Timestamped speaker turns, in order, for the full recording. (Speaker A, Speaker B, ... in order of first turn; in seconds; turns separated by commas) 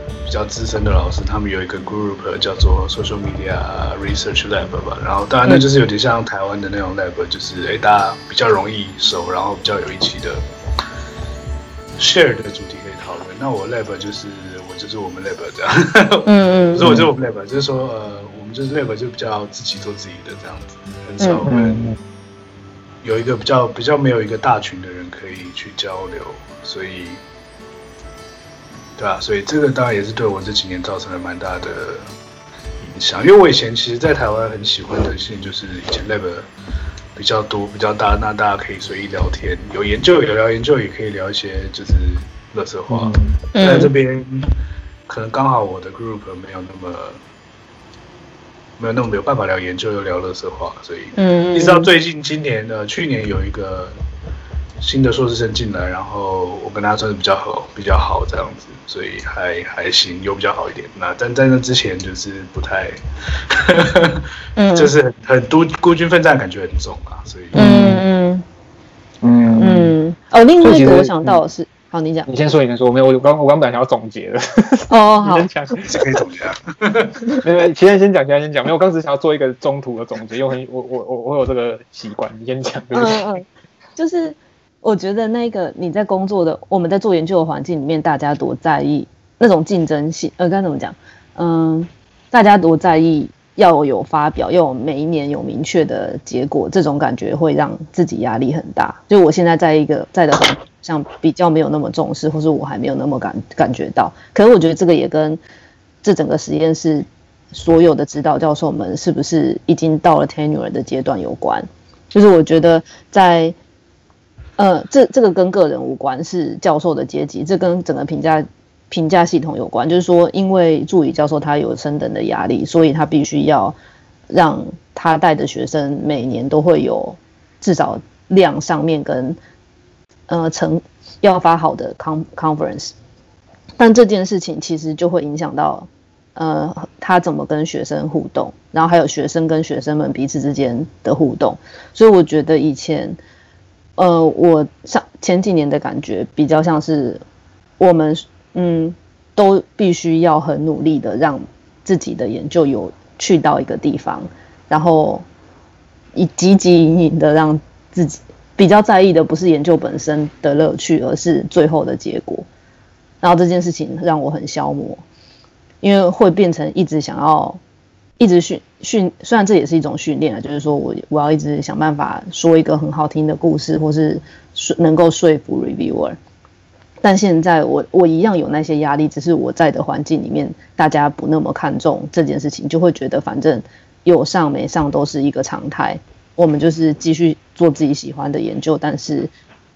Speaker A: 0.2-10.4, Speaker A: 12.0-21.9, Speaker B: 16.2-16.9, Speaker B: 21.2-21.5, Speaker C: 21.5-22.0, Speaker A: 23.0-27.2, Speaker A: 29.0-32.1, Speaker A: 32.8-36.5, Speaker A: 37.1-44.5, Speaker C: 42.9-43.4, Speaker B: 43.5-43.9, Speaker A: 45.1-47.2, Speaker A: 48.8-53.9, Speaker B: 51.1-51.9, Speaker A: 54.8-63.0, Speaker A: 63.5-67.6, Speaker B: 64.6-64.9, Speaker C: 67.5-68.0, Speaker B: 67.5-68.4, Speaker C: 69.2-70.0, Speaker B: 69.6-72.3, Speaker C: 70.6-71.4, Speaker C: 72.3-75.8, Speaker B: 74.9-75.5, Speaker A: 75.8-77.2, Speaker C: 77.4-83.3, Speaker B: 82.9-105.4, Speaker B: 106.0-113.5, Speaker B: 114.6-123.8, Speaker B: 124.3-129.4, Speaker B: 130.3-132.9, Speaker B: 133.8-143.2, Speaker B: 144.0-147.2, Speaker B: 147.8-155.2, Speaker B: 156.1-162.4, Speaker B: 163.2-165.0, Speaker B: 165.8-167.6, Speaker B: 168.2-176.2, Speaker B: 177.0-189.3